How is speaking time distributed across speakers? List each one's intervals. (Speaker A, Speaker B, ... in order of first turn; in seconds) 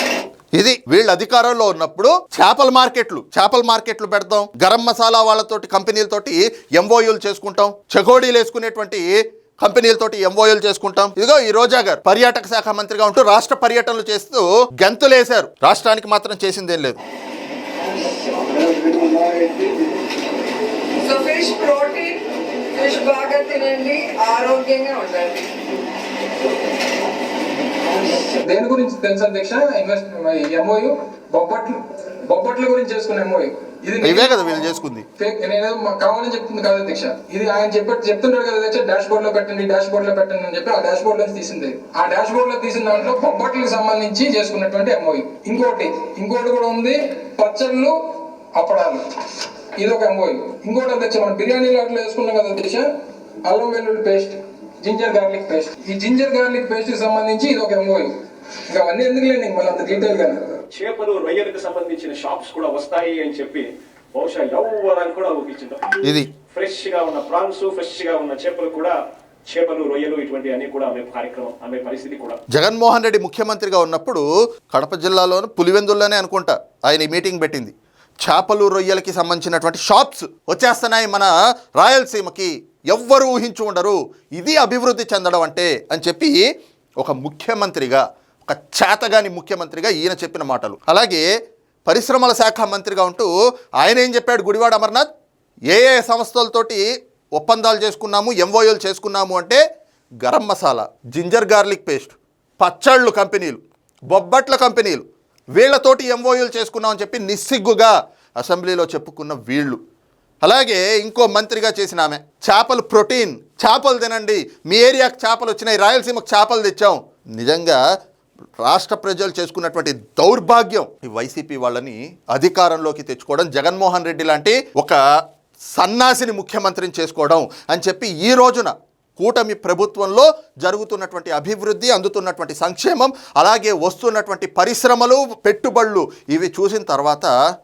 Speaker A: 0.5-17.0, 34.0-35.0, 72.5-86.4, 87.0-91.2, 91.9-95.0, 95.7-96.8, 97.3-99.6, 100.2-105.0, 105.5-109.8, 110.4-117.8, 118.6-125.0, 125.7-137.3
Speaker B: 21.0-25.6
Speaker C: 28.2-34.7, 35.2-48.0, 48.5-52.9, 53.4-58.1, 58.7-60.4
Speaker D: 60.7-66.0, 66.5-68.9, 69.5-72.4